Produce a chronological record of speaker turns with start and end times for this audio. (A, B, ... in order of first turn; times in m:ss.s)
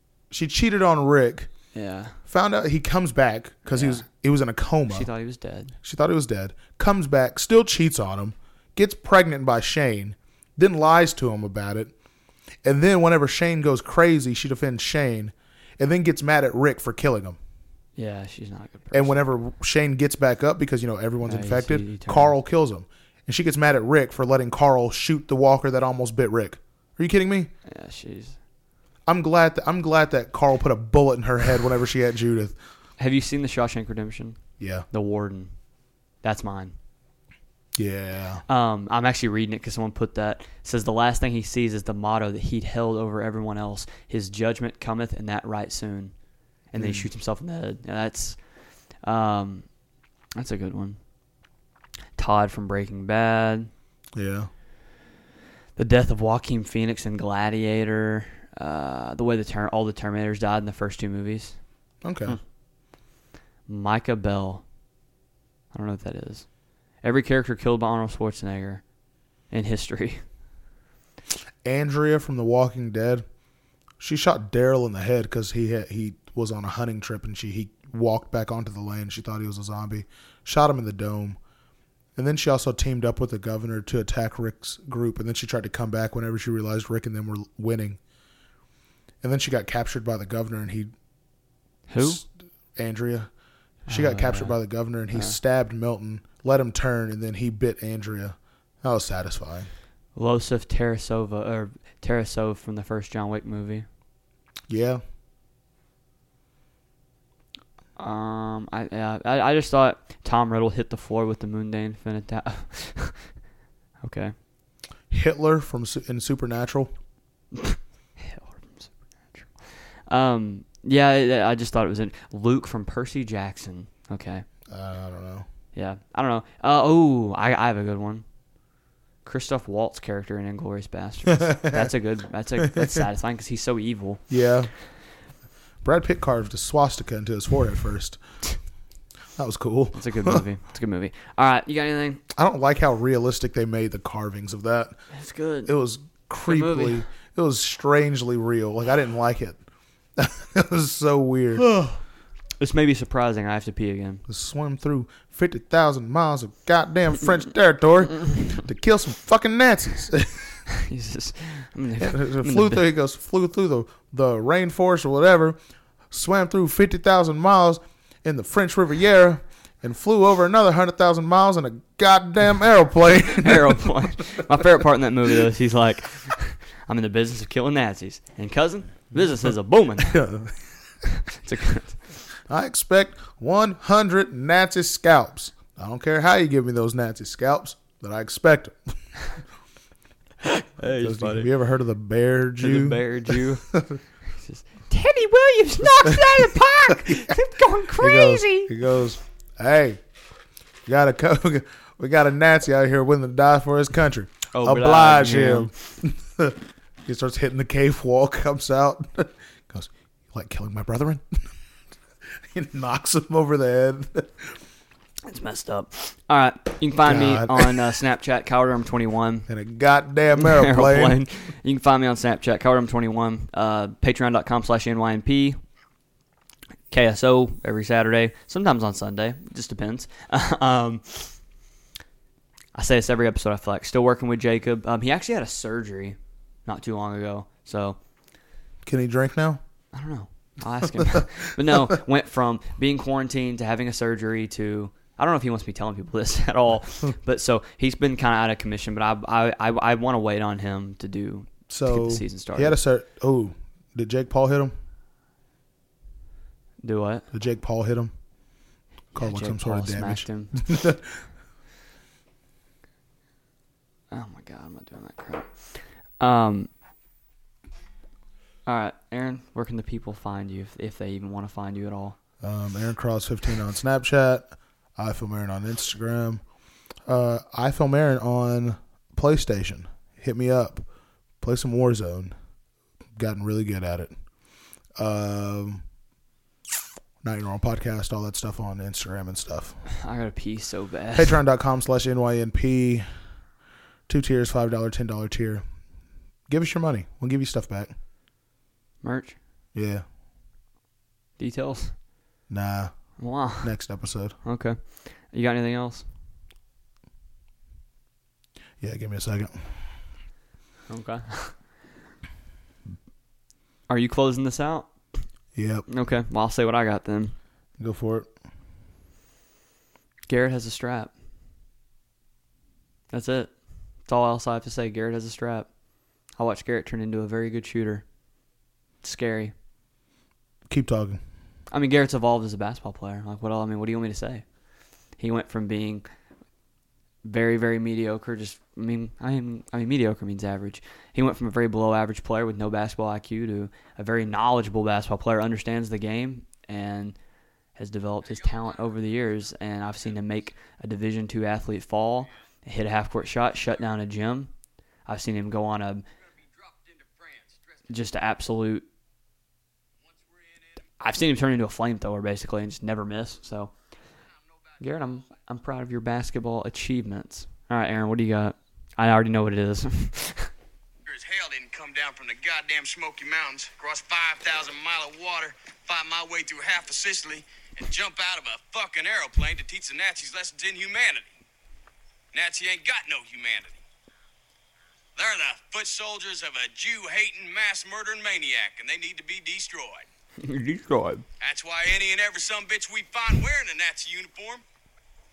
0:00.3-0:01.5 A
0:01.7-0:02.2 B
0:02.3-0:05.1 A
0:03.7-0:04.0 B
0:04.9-0:05.7 B
0:05.8-0:11.9 A
0:12.6-0:17.4 A
0:18.0-0:19.2 B
0:18.9-0:27.5 A
0:21.2-0:22.3 B
0:27.6-0:28.4 B
0:29.1-0:32.6 A
0:33.0-0:34.4 B
0:34.6-0:34.8 A
0:34.9-0:35.5 B
0:36.2-0:36.8 B
0:37.8-0:38.4 A
0:38.5-0:46.1 B
0:46.7-0:48.4 B
0:46.7-0:47.0 A
0:49.0-0:49.7 B
0:50.4-0:51.0 B
0:52.2-0:53.7 B
0:54.1-0:54.5 A
0:55.8-1:01.6 B
1:02.0-1:02.4 A
1:03.7-1:04.6 B
1:05.7-1:06.4 B
1:07.0-1:08.8 B
1:09.5-1:10.2 B
1:11.6-1:13.2 A
1:14.0-1:21.4 A
1:22.2-1:28.0 A
1:29.2-1:30.9 A
1:31.9-1:32.2 B
1:32.0-1:33.3 A
1:33.9-1:34.6 B
1:33.9-1:39.7 A
1:40.2-1:43.8 B
1:44.7-1:45.0 A
1:48.0-1:53.3 B
1:54.0-1:54.3 B
1:55.1-1:56.9 A
1:57.5-2:04.4 B
2:04.7-2:05.5 A
2:05.7-2:08.2 B
2:09.2-2:14.2 B
2:11.3-2:11.9 A
2:12.6-2:13.0 A
2:14.3-2:14.7 A
2:15.8-2:18.2 A
2:19.4-2:20.4 A
2:19.9-2:22.2 B
2:22.3-2:25.0 A
2:25.1-2:25.7 B
2:25.6-2:29.6 A
2:26.4-2:27.0 B
2:30.2-2:31.7 A
2:31.6-2:32.0 B
2:32.6-2:34.2 B
2:34.3-2:40.6 A
2:40.7-2:42.8 B
2:42.0-2:45.6 A
2:46.1-2:53.9 A
2:53.2-3:00.2 B
3:00.0-3:00.6 A
3:01.0-3:02.0 B
3:02.5-3:08.9 A
3:10.4-3:11.5 B
3:10.9-3:14.0 A
3:12.6-3:13.7 B
3:14.3-3:18.7 B
3:16.0-3:17.2 A
3:18.0-3:20.0 A
3:20.8-3:31.5 A
3:24.5-3:25.7 B
3:32.5-3:34.6 A
3:35.2-3:39.5 B
3:37.0-3:38.0 A
3:39.5-3:41.2 A
3:40.4-3:45.6 B
3:46.9-3:51.4 B
3:52.7-3:58.0 B
3:58.8-3:59.6 A
3:59.9-4:12.8 B
4:11.7-4:14.7 A
4:16.8-4:17.3 B
4:17.3-4:18.1 A
4:19.1-4:21.2 A
4:19.2-4:20.6 B
4:24.1-4:26.7 B
4:28.6-4:32.2 B
4:32.4-4:36.4 A
4:37.0-4:40.8 A
4:41.4-4:42.3 A
4:43.2-4:44.1 A
4:45.0-4:45.8 A
4:47.2-4:49.8 A
4:49.8-4:51.4 B
4:51.1-4:53.0 A
4:54.1-4:55.6 A
4:56.5-4:57.9 A
4:59.0-4:59.4 B
4:59.7-5:00.0 A
5:01.4-5:01.9 B
5:02.5-5:02.9 A
5:03.2-5:03.7 B
5:03.6-5:04.4 A
5:04.4-5:06.0 B
5:08.8-5:09.7 A
5:10.9-5:11.5 B
5:13.9-5:14.9 B
5:15.5-5:15.8 A
5:15.9-5:17.4 B
5:17.8-5:18.3 A
5:20.3-5:21.1 B
5:23.1-5:23.5 B
5:24.0-5:25.7 B
5:26.4-5:28.0 B
5:29.0-5:29.5 B
5:30.7-5:31.2 A
5:31.7-5:34.4 B
5:35.2-5:36.0 B
5:37.2-5:47.2 B
5:47.8-5:54.5 B
5:55.0-5:56.0 B
5:56.6-5:57.8 C
5:57.9-5:58.8 B
6:00.0-6:00.6 C
6:01.0-6:03.7 B
6:04.8-6:10.5 B
6:11.0-6:21.4 C
6:22.3-6:23.8 C
6:25.2-6:30.1 C
6:30.4-6:31.2 B
6:31.4-6:34.6 C